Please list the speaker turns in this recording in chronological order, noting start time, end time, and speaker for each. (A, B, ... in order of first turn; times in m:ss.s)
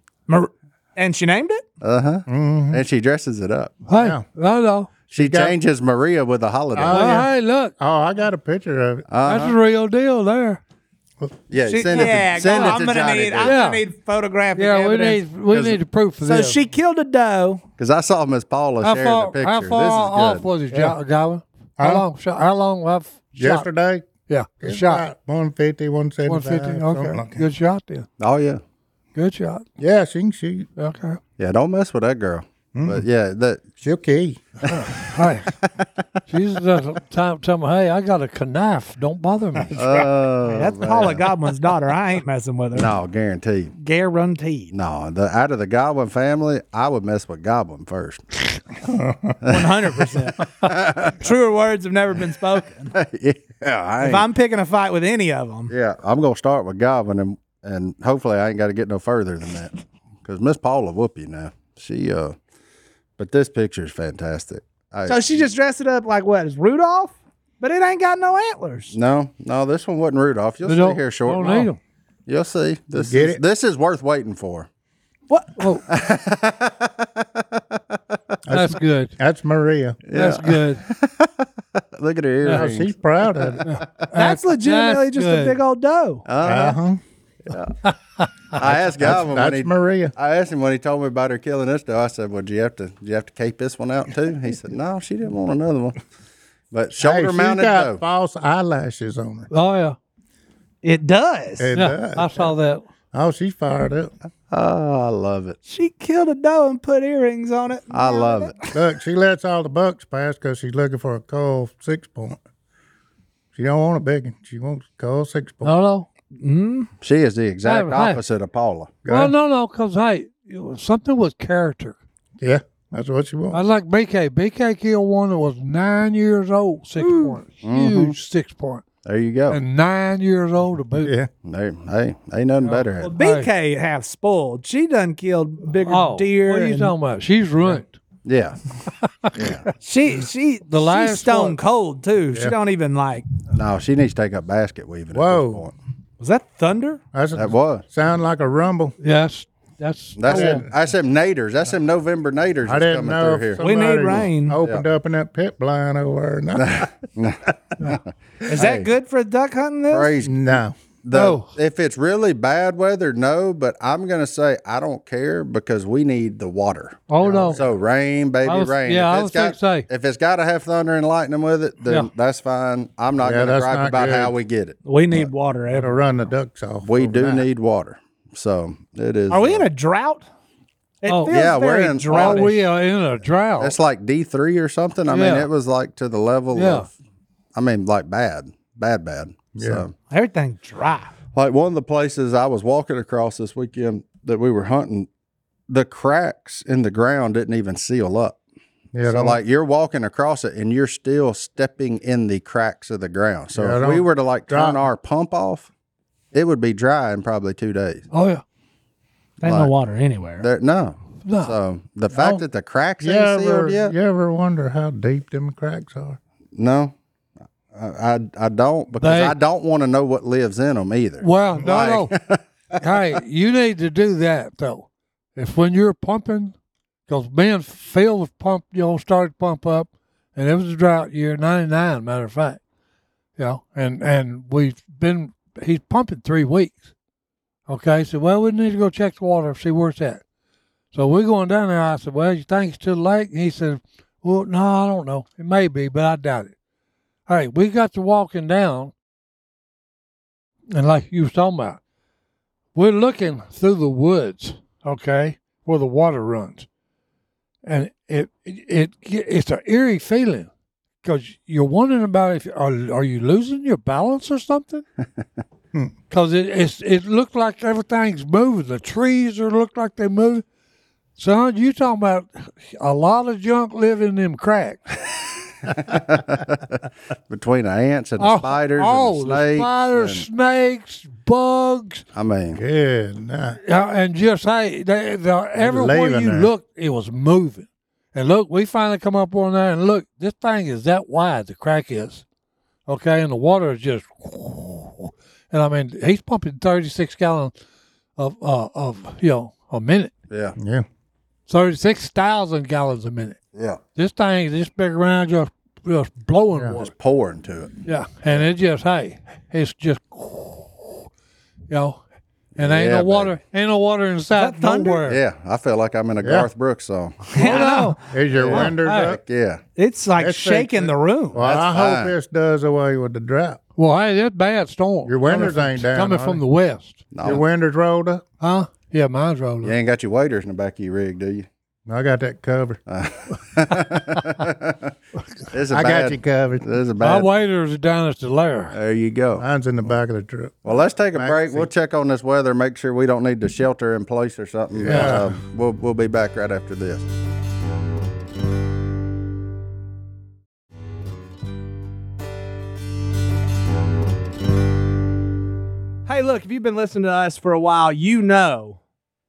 0:00.3-0:01.6 A
0:01.8-0:03.8 B
0:02.3-0:02.8 C
0:03.9-0:04.9 D
0:04.0-0:04.2 C
0:05.1-0:05.5 C
0:05.1-0:07.2 B
0:06.7-0:09.0 C
0:06.9-0:07.7 D
0:09.1-0:09.6 B
0:09.2-0:10.6 D
0:11.5-0:13.6 B
0:11.6-0:15.2 A
0:13.4-0:13.8 D
0:14.6-0:16.6 D
0:15.5-0:15.8 B
0:16.2-0:17.6 A
0:17.8-0:20.4 B
0:18.8-0:23.7 D
0:20.7-0:21.0 C
0:21.8-0:22.0 C
0:23.4-0:24.1 C
0:24.3-0:25.0 D
0:24.6-0:27.4 C
0:26.2-0:28.1 D
0:28.2-0:28.6 B
0:29.1-0:29.6 D
0:29.8-0:30.7 C
0:30.8-0:31.2 D
0:31.4-0:33.6 B
0:32.7-0:33.0 C
0:33.8-0:34.6 C
0:34.7-0:35.5 D
0:36.3-0:39.8 D
0:39.7-0:41.2 B
0:40.4-0:42.9 A
0:42.7-0:43.7 B
0:43.8-0:44.7 A
0:44.7-0:48.2 B
0:48.8-0:49.4 C
0:49.4-0:50.4 A
0:50.6-0:51.2 B
0:51.2-0:52.9 A
0:52.9-0:54.3 B
0:54.0-0:55.7 A
0:55.7-1:02.4 B
1:03.2-1:05.4 B
1:05.0-1:08.9 A
1:08.9-1:11.7 B
1:10.6-1:11.8 D
1:12.3-1:14.7 B
1:12.9-1:13.4 C
1:15.3-1:15.6 A
1:15.6-1:15.8 D
1:15.9-1:17.8 B
1:18.5-1:20.0 C
1:18.5-1:19.1 D
1:20.0-1:23.6 B
1:20.1-1:20.8 D
1:22.5-1:23.6 C
1:23.6-1:25.6 D
1:24.1-1:26.2 A
1:26.2-1:26.8 B
1:26.4-1:27.0 C
1:27.5-1:27.8 B
1:28.5-1:36.0 B
1:28.6-1:30.1 C
1:36.7-1:38.0 B
1:37.0-1:39.5 C
1:39.5-1:40.0 D
1:40.8-1:41.7 A
1:41.6-1:42.5 C
1:41.7-1:42.8 D
1:43.1-1:44.1 C
1:44.5-1:45.6 B
1:45.6-1:48.7 A
1:47.9-1:48.5 B
1:48.7-1:52.4 C
1:53.5-1:55.7 C
1:55.6-1:56.1 D
1:56.4-1:56.9 A
1:57.0-1:59.0 B
1:57.6-1:58.2 D
1:59.0-1:59.3 C
1:59.1-2:02.0 D
2:02.4-2:03.6 C
2:03.5-2:08.8 D
2:07.0-2:07.3 A
2:07.6-2:08.1 B
2:09.0-2:09.6 B
2:09.5-2:11.1 D
2:11.0-2:11.3 C
2:11.4-2:13.1 B
2:12.6-2:13.5 D
2:13.0-2:16.9 A
2:15.8-2:18.0 D
2:18.2-2:18.6 B
2:19.0-2:19.3 D
2:19.3-2:19.7 B
2:19.8-2:23.3 A
2:20.7-2:21.6 D
2:23.5-2:25.7 B
2:25.1-2:25.6 C
2:26.2-2:27.0 A
2:27.1-2:29.0 C
2:27.3-2:27.8 B
2:29.0-2:30.6 D
2:30.2-2:33.6 B
2:30.3-2:30.6 C
2:32.6-2:36.9 C
2:33.6-2:34.6 A
2:36.6-2:38.9 B
2:38.5-2:40.1 A
2:39.9-2:54.8 B
2:40.2-2:40.8 C
2:41.1-2:41.5 D
2:47.1-2:47.6 D
2:47.2-2:47.7 C
2:48.4-2:49.9 D
2:53.2-2:54.4 C
2:54.8-2:56.0 A
2:55.7-2:57.5 C
2:56.8-2:59.6 B
2:59.3-3:00.2 A
3:01.0-3:02.6 A
3:01.0-3:01.4 D
3:01.3-3:02.5 B
3:02.1-3:03.8 D
3:03.6-3:06.9 B
3:05.1-3:05.5 D
3:06.5-3:06.9 D
3:07.5-3:09.9 B
3:09.6-3:09.8 C
3:10.1-3:11.1 A
3:11.3-3:15.1 B
3:15.7-3:18.4 B
3:18.9-3:19.4 C
3:19.0-3:25.7 B
3:23.5-3:24.8 C
3:26.3-3:28.0 B
3:28.1-3:28.4 D
3:29.4-3:30.5 A
3:29.4-3:29.7 B
3:30.4-3:33.9 B
3:31.2-3:31.6 D
3:32.1-3:32.4 D
3:33.0-3:36.2 C
3:36.5-3:36.9 B
3:37.7-3:43.0 B
3:39.0-3:39.4 D
3:41.2-3:42.1 D
3:42.8-3:46.5 D
3:47.1-3:52.6 D
3:53.4-3:56.8 D
3:57.7-4:00.2 D
4:00.9-4:06.5 D
4:07.3-4:08.9 D
4:10.7-4:11.8 D
4:12.7-4:16.7 D
4:17.6-4:20.5 D
4:21.0-4:24.8 D
4:26.1-4:30.4 D
4:31.2-4:35.0 D
4:35.8-4:36.7 B
4:37.3-4:40.2 B
4:38.2-4:42.0 D
4:42.1-4:42.6 B
4:42.5-4:43.6 C
4:43.6-4:52.2 D
4:45.6-4:46.5 C
4:52.9-4:57.5 D
4:58.2-5:00.1 D
5:00.3-5:00.6 B
5:00.6-5:00.8 C
5:01.5-5:03.4 D
5:03.5-5:03.8 B
5:03.9-5:06.9 D
5:06.8-5:07.7 B
5:07.8-5:11.1 D
5:11.7-5:12.0 D
5:12.5-5:13.4 B
5:12.6-5:15.2 D
5:14.4-5:15.0 A
5:15.0-5:17.2 B
5:16.2-5:16.5 C
5:17.3-5:18.0 D
5:17.3-5:18.0 A
5:18.1-5:19.2 C
5:18.3-5:19.6 B
5:18.5-5:19.2 D
5:19.8-5:21.4 A
5:20.2-5:23.6 C
5:21.4-5:22.1 B
5:23.8-5:27.0 D
5:25.0-5:26.4 C
5:27.1-5:27.4 B
5:27.2-5:28.2 C
5:28.4-5:29.7 D
5:29.6-5:31.5 B
5:31.9-5:32.8 C
5:32.9-5:34.9 B
5:35.5-5:37.3 B
5:35.7-5:36.7 C
5:37.0-5:38.7 D
5:38.7-5:39.4 B
5:39.4-5:41.7 C
5:40.6-5:47.1 B
5:44.7-5:45.4 C
5:44.8-5:45.2 D
5:56.0-5:58.8 A